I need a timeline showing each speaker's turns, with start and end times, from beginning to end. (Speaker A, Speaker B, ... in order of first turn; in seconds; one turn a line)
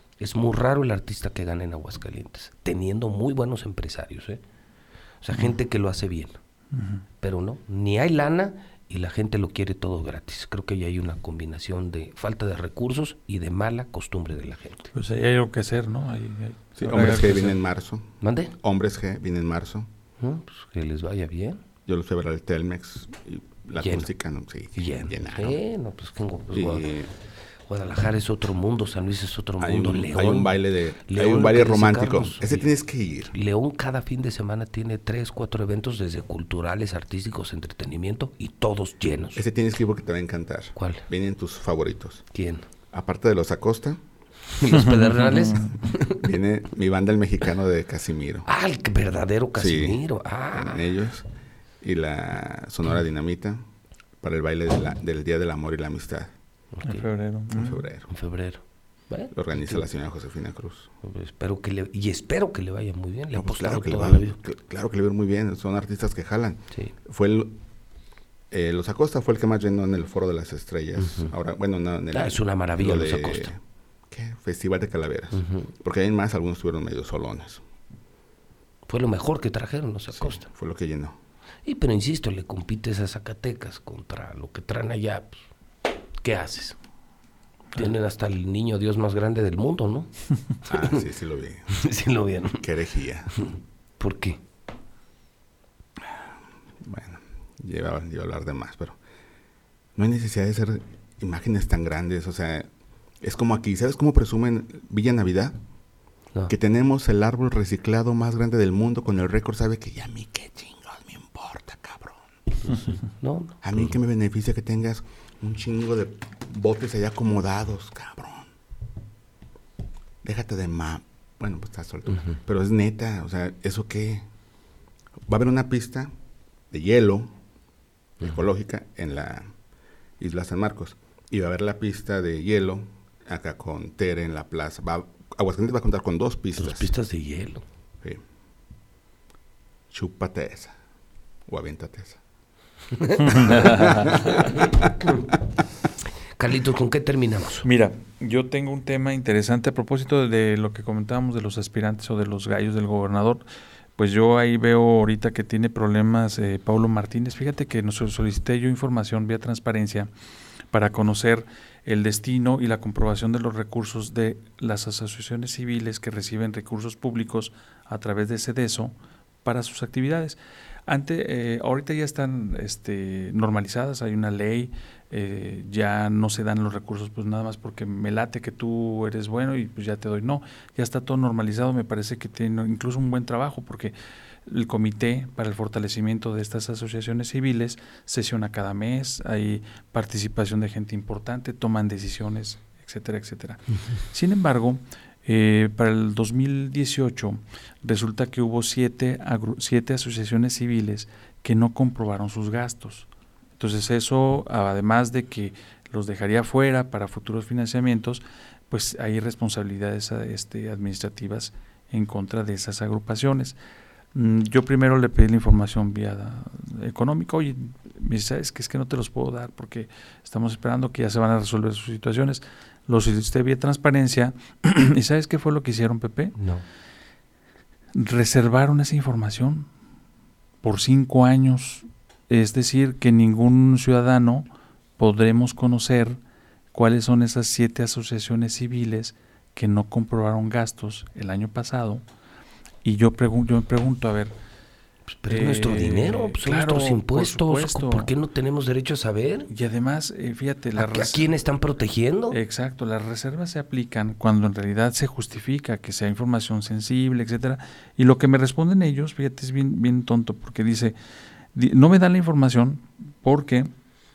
Speaker A: 0.2-4.4
Speaker A: 5.2-6.4
Speaker B: 6.7-7.0
Speaker A: 7.2-14.9
Speaker B: 14.9-17.6
Speaker C: 16.8-19.9
Speaker A: 18.2-18.6
Speaker A: 20.2-21.6
Speaker C: 21.9-25.6
Speaker A: 23.8-24.1
Speaker A: 24.8-26.9
Speaker C: 26.5-27.1
Speaker A: 27.7-32.7
Speaker C: 29.6-33.3
Speaker A: 33.3-39.5
Speaker C: 39.4-42.2
Speaker A: 40.8-41.1
Speaker A: 42.3-42.7
Speaker C: 42.9-44.0
Speaker A: 44.5-46.3
Speaker B: 44.9-45.7
Speaker C: 46.1-48.5
Speaker A: 48.5-50.9
Speaker C: 49.6-50.0
Speaker C: 50.5-51.3
Speaker C: 51.8-53.6
Speaker C: 54.2-56.3
Speaker A: 56.8-57.1
Speaker B: 56.9-57.9
Speaker C: 57.5-58.1
Speaker A: 58.1-59.8
Speaker C: 59.3-60.9
Speaker A: 61.0-64.4
Speaker C: 63.4-67.6
Speaker C: 68.5-73.6
Speaker A: 71.0-71.3
Speaker A: 72.1-73.5
Speaker C: 74.1-77.6
Speaker A: 75.3-75.7
Speaker A: 78.9-80.5
Speaker C: 80.1-81.2
Speaker A: 81.7-85.4
Speaker A: 86.2-86.8
Speaker A: 87.8-90.1
Speaker A: 90.6-91.0
Speaker C: 90.7-91.8
Speaker A: 91.7-92.7
Speaker C: 92.6-93.4
Speaker A: 94.0-94.4
Speaker C: 96.0-96.3
Speaker C: 96.8-99.0
Speaker C: 100.0-102.7
Speaker C: 103.2-105.6
Speaker C: 106.5-112.8
Speaker A: 112.7-113.6
Speaker C: 113.6-118.5
Speaker C: 120.2-124.2
Speaker C: 125.3-126.1
Speaker C: 126.7-127.3
Speaker C: 128.2-129.5
Speaker C: 130.2-136.9
Speaker A: 136.6-137.6
Speaker C: 139.9-140.8
Speaker C: 141.5-142.2
Speaker A: 142.9-145.2
Speaker B: 143.3-144.2
Speaker C: 143.4-144.9
Speaker A: 146.4-147.7
Speaker B: 147.6-153.4
Speaker B: 154.0-160.1
Speaker B: 160.7-168.9
Speaker B: 169.4-183.9
Speaker B: 184.5-213.6
Speaker B: 214.2-226.4
Speaker A: 226.4-226.6
Speaker B: 227.9-229.7
Speaker B: 230.6-234.5
Speaker B: 235.0-236.2
Speaker B: 236.7-242.0
Speaker B: 242.8-244.3
Speaker A: 245.1-249.5
Speaker B: 245.3-248.1
Speaker B: 249.5-251.3
Speaker A: 250.8-252.4
Speaker B: 252.3-260.9
Speaker B: 261.6-263.7